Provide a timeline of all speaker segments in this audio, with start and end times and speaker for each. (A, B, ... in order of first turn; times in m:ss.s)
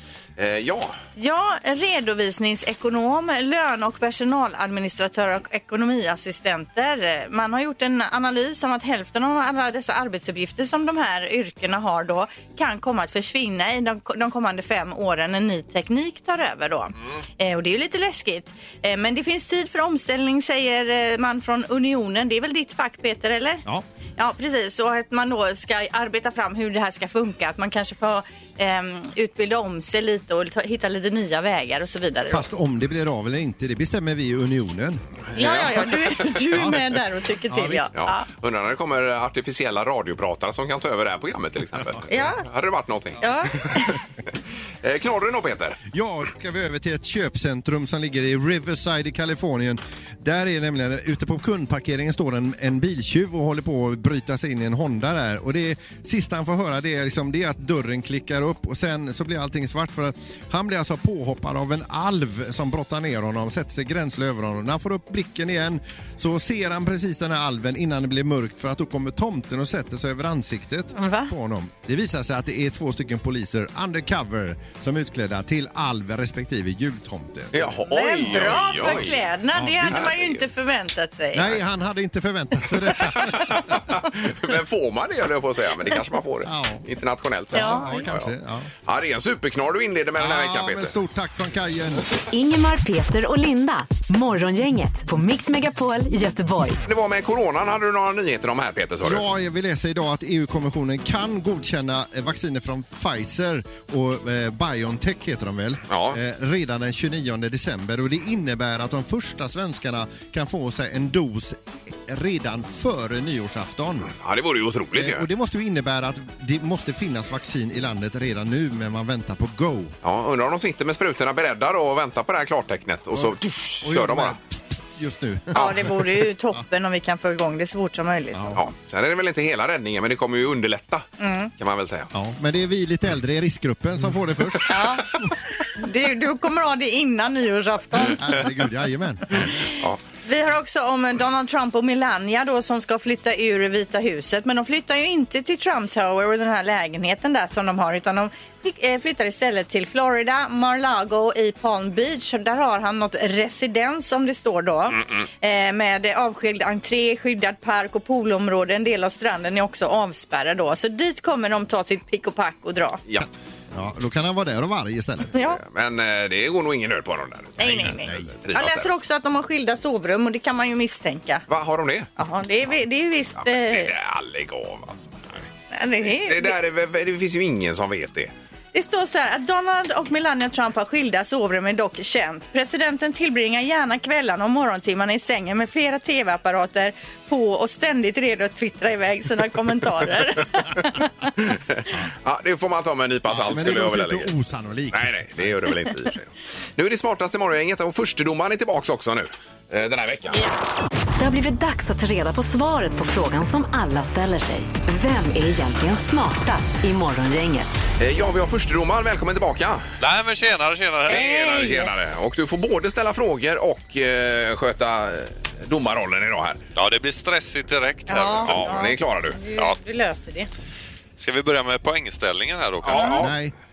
0:00.4-0:01.0 A
0:01.2-0:23.6 B
0:24.2-0:32.5 B
0:32.3-0:35.0 C
0:35.4-0:36.4 A
0:35.4-0:38.3 B
0:36.5-0:36.8 C
0:37.5-0:37.9 C
0:38.0-0:43.8 A
0:42.1-0:42.4 B
0:43.2-0:44.0 B
0:44.8-0:45.8 A
0:45.9-1:17.8 C
1:11.0-1:11.3 B
1:17.5-1:19.2 A
1:17.9-1:21.6 B
1:18.3-1:20.2 C
1:19.9-1:20.4 A
1:21.3-1:23.8 C
1:23.2-1:28.3 A
1:26.4-1:26.9 C
1:27.5-1:28.7 C
1:27.5-1:27.9 B
1:28.8-1:31.0 A
1:30.2-1:32.1 C
1:32.3-1:36.8 D
1:36.8-1:39.2 A
1:39.0-1:54.1 C
1:45.9-1:46.2 A
1:54.2-1:55.2 A
1:55.0-2:00.0 C
2:00.0-2:04.4 A
2:03.1-2:06.6 C
2:05.6-2:08.4 B
2:08.3-2:08.6 C
2:08.5-2:11.1 A
2:11.2-2:11.5 B
2:11.6-2:12.1 A
2:12.1-2:15.2 C
2:14.7-2:15.1 B
2:15.8-2:18.5 B
2:18.2-2:19.5 C
2:19.4-2:19.7 B
2:20.2-2:43.0 B
2:34.9-2:35.3 A
2:43.2-2:45.3 C
2:45.3-2:45.6 B
2:45.6-2:49.0 A
2:47.6-2:51.4 B
2:47.8-2:48.3 C
2:51.5-2:52.1 A
2:52.2-2:53.9 B
2:53.4-2:55.5 A
2:55.7-2:56.6 B
2:56.0-2:58.3 A
2:58.7-3:11.3 B
3:11.5-3:14.3 A
3:13.3-3:15.9 C
3:14.9-3:20.4 A
3:21.2-3:27.7 D
3:28.0-3:29.8 A
3:30.0-3:31.3 E
3:31.1-3:36.6 A
3:31.1-3:31.9 B
3:36.8-3:38.8 E
3:38.1-3:40.5 B
3:38.5-3:39.4 A
3:41.2-3:43.3 E
3:42.8-3:43.3 A
3:43.1-3:43.5 C